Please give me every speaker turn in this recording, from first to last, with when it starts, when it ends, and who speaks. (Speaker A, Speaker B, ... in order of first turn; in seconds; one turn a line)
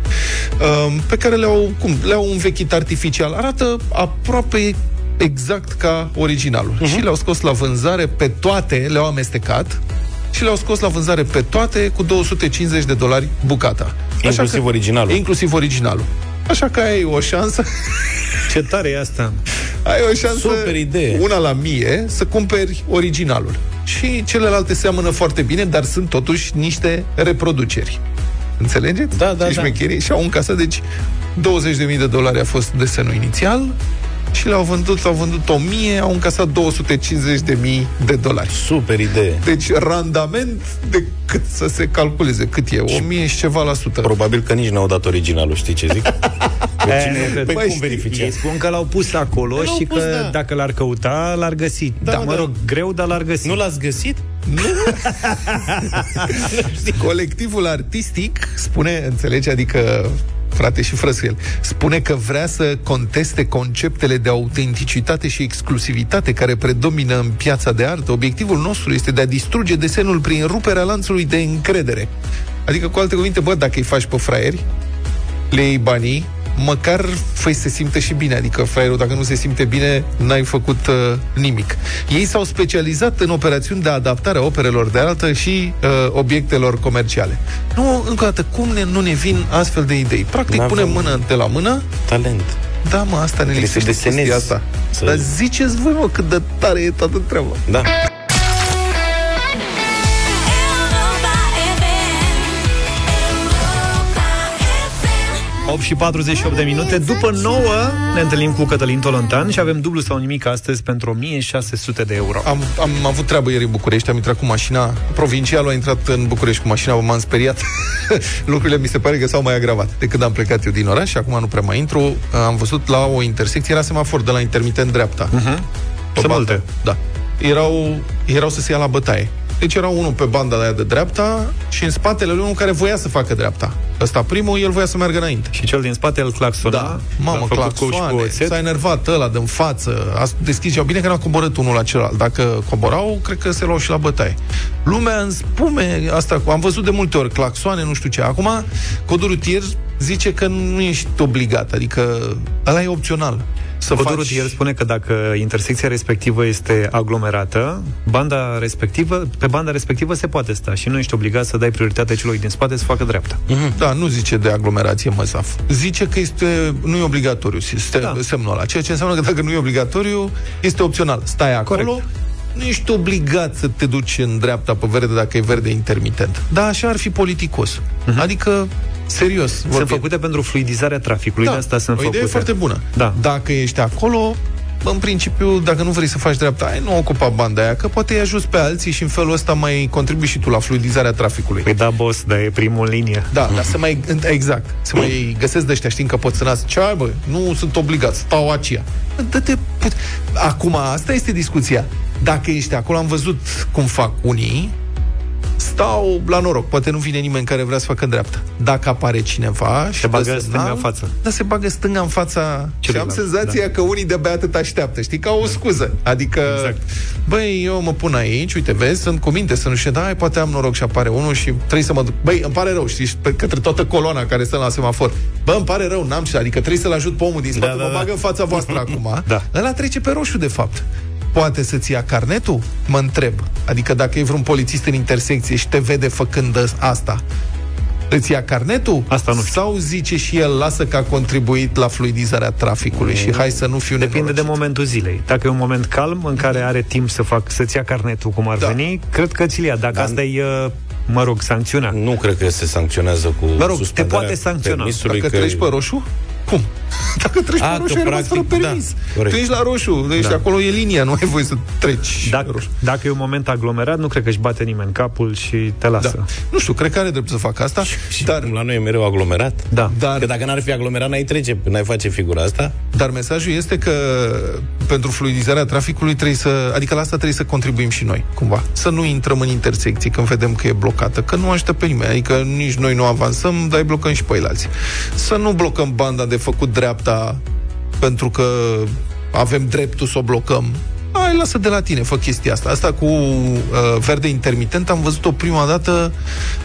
Speaker A: 0.6-9.8
Speaker A: 10.3-17.7
Speaker B: 14.2-15.2
Speaker C: 18.5-19.4
Speaker A: 19.8-28.0
Speaker B: 20.3-21.2
Speaker A: 28.6-30.8
Speaker B: 29.1-29.7
Speaker A: 31.3-33.8
Speaker A: 34.3-38.5
Speaker B: 38.5-39.4
Speaker A: 39.4-44.1
Speaker B: 44.0-46.2
Speaker B: 46.8-48.3
Speaker C: 46.9-53.6
Speaker A: 47.3-48.0
Speaker B: 49.6-50.3
Speaker B: 52.0-52.5
Speaker B: 53.4-54.2
Speaker A: 54.5-54.9
Speaker C: 55.3-55.6
Speaker B: 56.2-57.0
Speaker A: 56.9-72.1
Speaker A: 72.7-74.6
Speaker A: 75.5-91.9
Speaker B: 90.5-91.2
Speaker B: 92.1-92.6
Speaker A: 92.8-97.6
Speaker B: 93.5-95.3
Speaker C: 105.7-112.5
Speaker A: 112.4-125.3
Speaker C: 125.3-125.6
Speaker A: 126.2-135.5
Speaker C: 126.2-126.6
Speaker C: 135.5-138.6
Speaker A: 136.6-154.5
Speaker C: 153.9-163.4
Speaker B: 163.5-163.7
Speaker A: 163.7-180.1
Speaker C: 171.7-172.0
Speaker C: 179.7-183.2
Speaker A: 181.4-191.7
Speaker C: 191.6-193.3
Speaker A: 193.3-204.7
Speaker A: 205.6-237.2
Speaker C: 210.0-211.1
Speaker C: 212.8-213.6
Speaker C: 216.5-216.8
Speaker B: 227.6-228.1
Speaker A: 238.1-244.5
Speaker C: 239.1-239.6
Speaker B: 243.0-243.4
Speaker C: 244.0-252.0
Speaker B: 251.9-255.7
Speaker C: 253.6-254.9
Speaker A: 255.0-262.7
Speaker B: 257.6-259.4
Speaker C: 262.2-266.3
Speaker A: 266.0-268.5
Speaker B: 267.9-272.7
Speaker A: 269.9-270.3
Speaker A: 272.9-287.4
Speaker A: 288.0-296.1